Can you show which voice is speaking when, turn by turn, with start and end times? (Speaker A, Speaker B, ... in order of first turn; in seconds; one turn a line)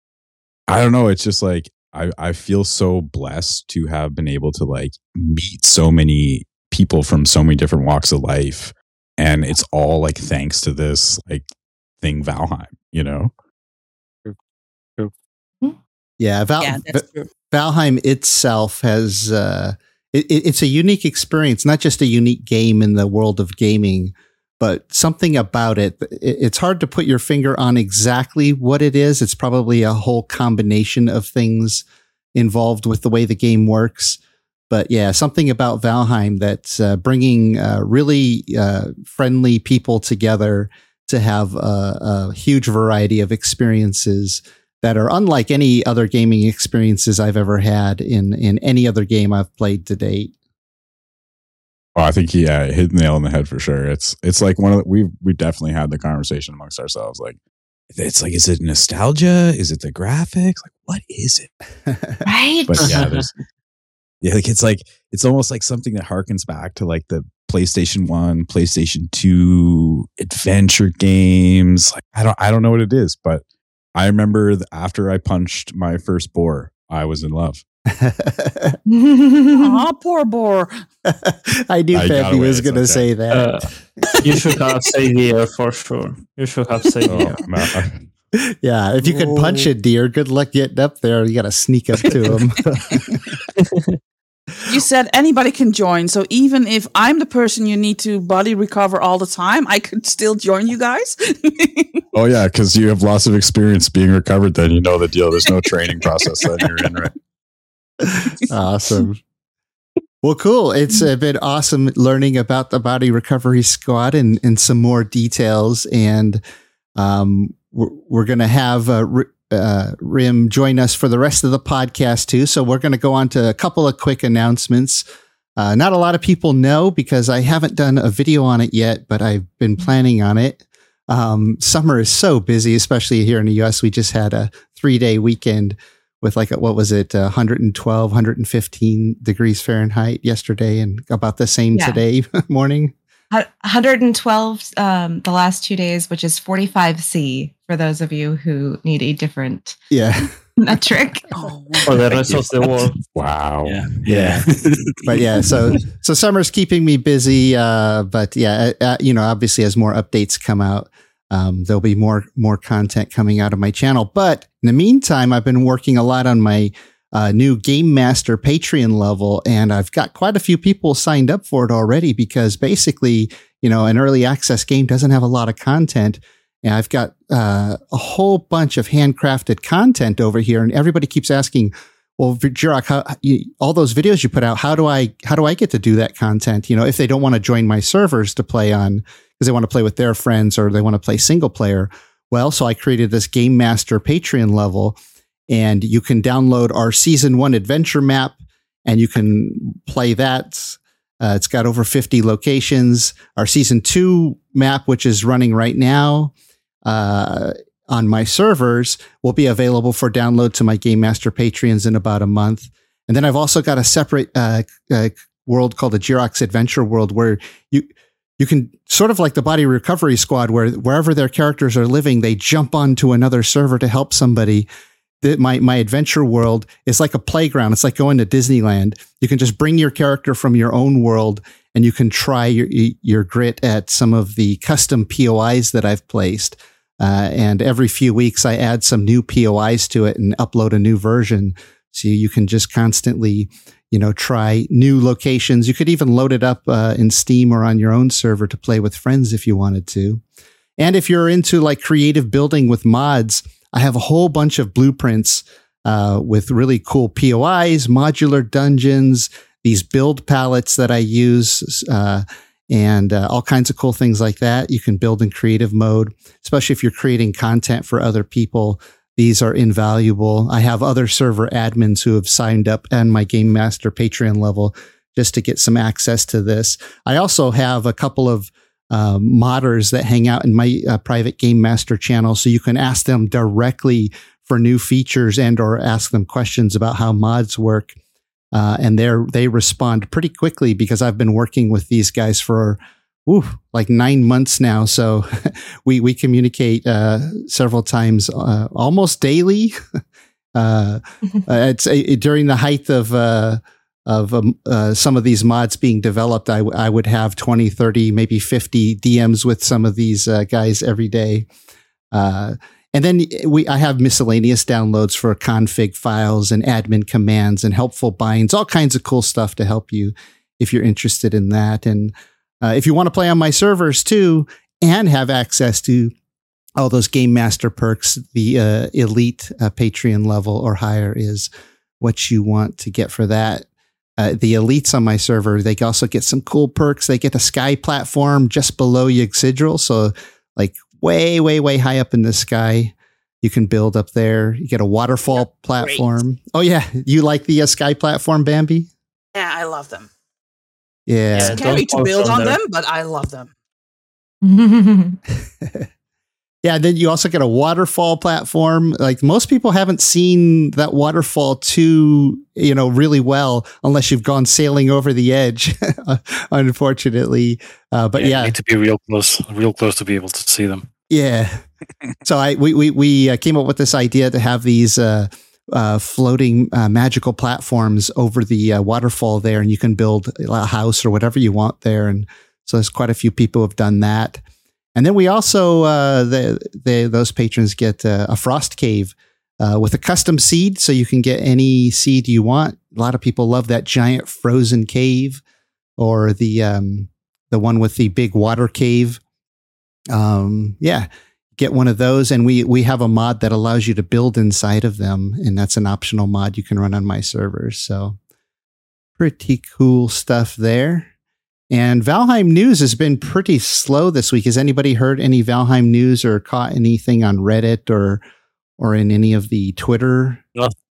Speaker A: 0.7-11.4
Speaker A: 12.0-13.3
Speaker B: 16.2-34.2
Speaker C: 16.6-17.3
Speaker B: 34.7-50.3
Speaker A: 52.0-57.4
Speaker A: 57.9-61.5
Speaker B: 61.9-62.2
Speaker D: 62.2-62.9
Speaker A: 62.7-63.3
Speaker E: 62.8-63.2
Speaker A: 64.2-73.4
Speaker A: 73.9-77.6
Speaker B: 77.9-78.8
Speaker D: 78.9-79.8
Speaker C: 79.5-80.8
Speaker B: 81.1-83.6
Speaker A: 81.9-83.1
Speaker E: 83.3-83.7
Speaker E: 84.2-87.4
Speaker A: 87.1-88.0
Speaker B: 88.4-92.6
Speaker C: 89.1-89.7
Speaker C: 92.9-93.2
Speaker E: 93.6-94.0
Speaker C: 94.7-102.0
Speaker A: 102.1-107.1
Speaker C: 106.2-106.7
Speaker B: 108.5-109.2
Speaker B: 110.2-116.4
Speaker B: 117.0-125.0
Speaker B: 125.6-142.9
Speaker D: 141.7-142.0
Speaker D: 143.3-149.8
Speaker B: 149.9-150.3
Speaker D: 150.6-151.3
Speaker C: 151.3-152.1
Speaker E: 151.9-152.9
Speaker A: 153.1-154.4
Speaker F: 153.6-155.1
Speaker B: 154.1-154.4
Speaker B: 155.1-195.0
Speaker B: 195.5-206.3
Speaker B: 206.8-224.7
Speaker B: 225.2-250.2
Speaker B: 250.8-287.9
Speaker B: 288.5-299.8
Speaker B: 300.5-311.5
Speaker B: 312.1-326.1
Speaker B: 326.8-333.6
Speaker B: 334.2-348.9
Speaker C: 345.3-346.2
Speaker C: 349.3-350.1
Speaker B: 351.1-351.6
Speaker C: 351.3-353.5
Speaker E: 351.3-352.6
Speaker D: 354.4-355.2
Speaker B: 355.6-355.9
Speaker B: 356.6-368.5
Speaker F: 368.1-370.8
Speaker B: 371.1-371.6
Speaker B: 372.2-384.4
Speaker B: 384.9-395.4
Speaker B: 396.0-399.2
Speaker B: 400.1-408.2
Speaker B: 409.2-411.1
Speaker B: 411.7-418.2
Speaker B: 418.8-420.4